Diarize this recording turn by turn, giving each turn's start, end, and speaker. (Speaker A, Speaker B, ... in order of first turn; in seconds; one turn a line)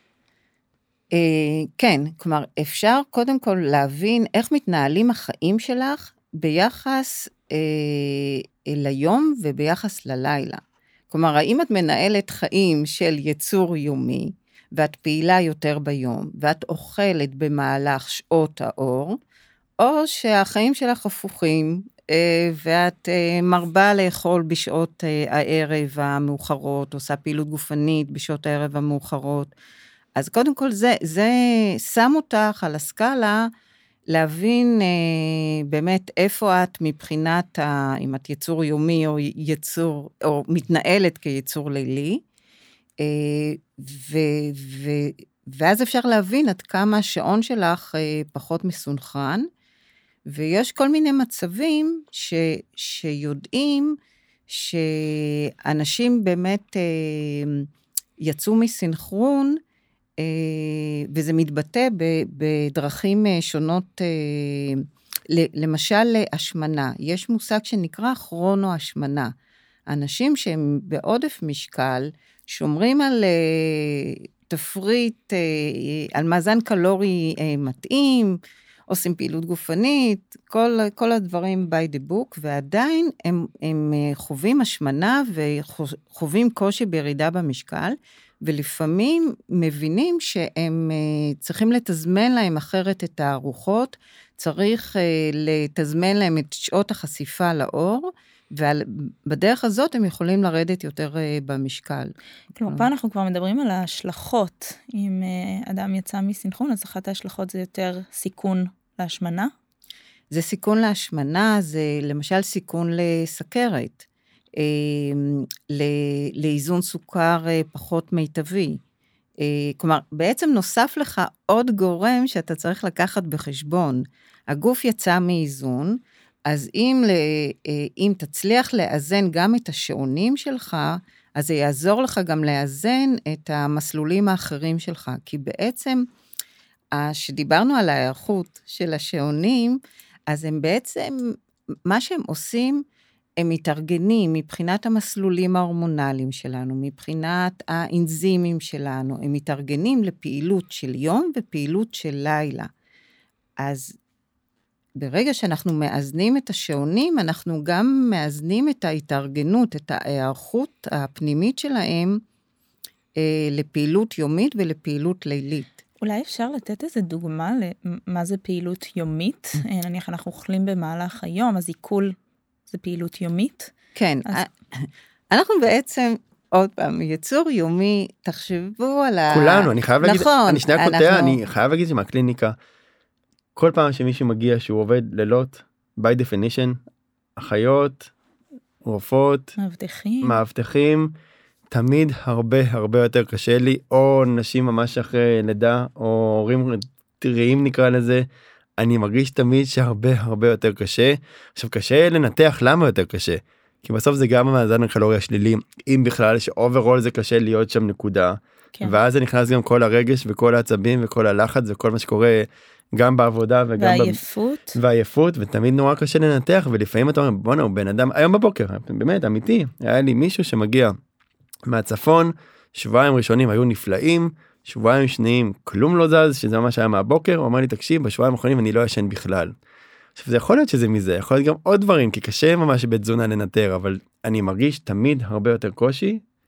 Speaker A: 1.1-10.6
Speaker A: 11.1-19.2
Speaker A: 19.8-29.5
Speaker A: 30.1-33.5
Speaker A: 34.1-42.2
Speaker A: 43.0-49.5
Speaker A: 50.3-54.0
Speaker A: 54.5-57.7
Speaker A: 58.2-59.6
Speaker A: 60.2-69.3
Speaker A: 69.9-102.1
Speaker B: 102.5-109.5
Speaker A: 110.3-114.0
Speaker A: 114.6-118.8
Speaker A: 119.4-136.0
Speaker A: 136.9-142.8
Speaker A: 143.4-152.7
Speaker A: 153.6-153.9
Speaker A: 155.0-162.2
Speaker A: 163.2-165.7
Speaker B: 166.0-172.2
Speaker B: 172.7-173.7
Speaker A: 173.9-181.4
Speaker C: 179.3-182.5
Speaker C: 183.5-186.8
Speaker C: 187.4-188.1
Speaker C: 188.8-189.5
Speaker B: 189.6-190.3
Speaker C: 190.2-191.1
Speaker C: 191.7-198.2
Speaker C: 198.8-214.2
Speaker B: 213.8-214.8
Speaker C: 214.7-220.9
Speaker C: 221.7-229.5
Speaker C: 230.2-236.2